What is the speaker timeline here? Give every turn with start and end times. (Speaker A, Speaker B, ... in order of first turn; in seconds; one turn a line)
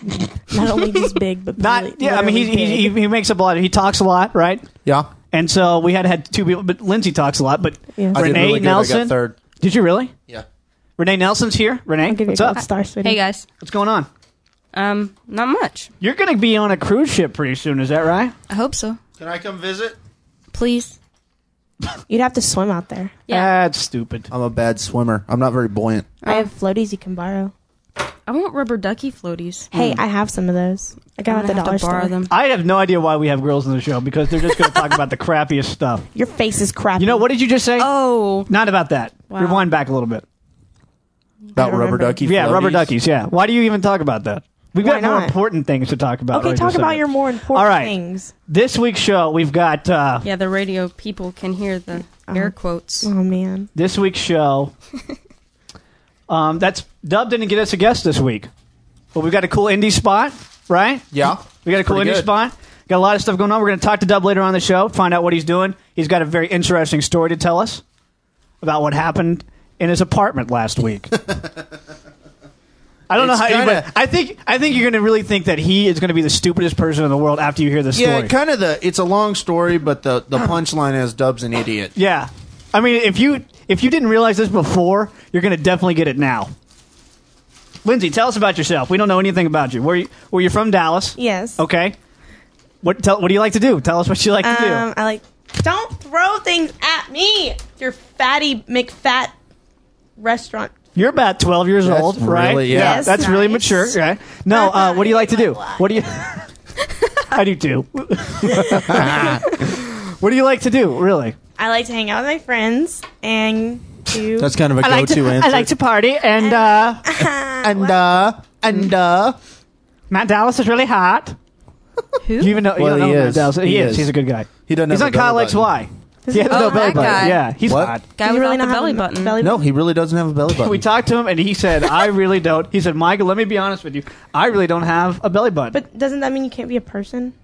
Speaker A: 0.2-3.0
Speaker B: 1.6-4.6
Speaker B: 5.3-10.1
Speaker A: 8.0-8.3
Speaker C: 8.1-9.4
Speaker B: 11.0-12.6
Speaker A: 12.1-13.2
Speaker D: 13.0-13.4
Speaker B: 13.6-14.1
Speaker D: 14.7-15.9
Speaker B: 16.0-18.3
Speaker D: 18.5-19.0
Speaker C: 19.2-20.0
Speaker D: 20.5-20.9
Speaker A: 22.1-23.1
Speaker B: 23.3-24.3
Speaker C: 24.3-26.1
Speaker D: 26.2-26.5
Speaker A: 26.2-27.5
Speaker D: 28.3-29.7
Speaker A: 29.7-32.2
Speaker B: 29.7-30.0
Speaker D: 31.3-32.3
Speaker B: 32.3-36.1
Speaker A: 36.1-37.3
Speaker B: 37.0-40.2
Speaker D: 37.8-38.5
Speaker A: 39.3-39.7
Speaker A: 41.5-42.2
Speaker C: 41.5-42.9
Speaker B: 42.2-47.9
Speaker A: 44.8-45.4
Speaker A: 46.3-48.3
Speaker B: 48.5-50.2
Speaker D: 50.2-53.1
Speaker A: 52.1-53.7
Speaker B: 53.7-54.7
Speaker B: 56.3-58.5
Speaker B: 59.1-67.8
Speaker C: 61.1-62.3
Speaker B: 68.6-71.1
Speaker B: 73.1-78.3
Speaker C: 73.2-73.9
Speaker C: 77.9-81.9
Speaker B: 81.9-86.5
Speaker B: 87.8-92.0
Speaker A: 91.2-91.6
Speaker B: 92.8-94.8
Speaker A: 94.4-99.3
Speaker A: 100.2-100.7
Speaker B: 100.9-106.5
Speaker C: 101.8-103.2
Speaker A: 102.7-104.0
Speaker A: 104.5-106.0
Speaker B: 107.3-111.3
Speaker C: 108.7-109.4
Speaker A: 111.6-114.5
Speaker C: 114.4-115.7
Speaker B: 114.8-117.0
Speaker A: 116.4-118.1
Speaker C: 117.6-119.4
Speaker B: 120.1-121.3
Speaker D: 122.2-122.6
Speaker B: 122.4-128.0
Speaker C: 122.7-124.1
Speaker C: 124.7-125.8
Speaker A: 126.2-127.4
Speaker D: 126.5-127.5
Speaker C: 127.7-128.0
Speaker D: 128.1-129.3
Speaker A: 128.2-129.7
Speaker C: 129.4-130.8
Speaker B: 130.5-135.8
Speaker A: 135.7-137.3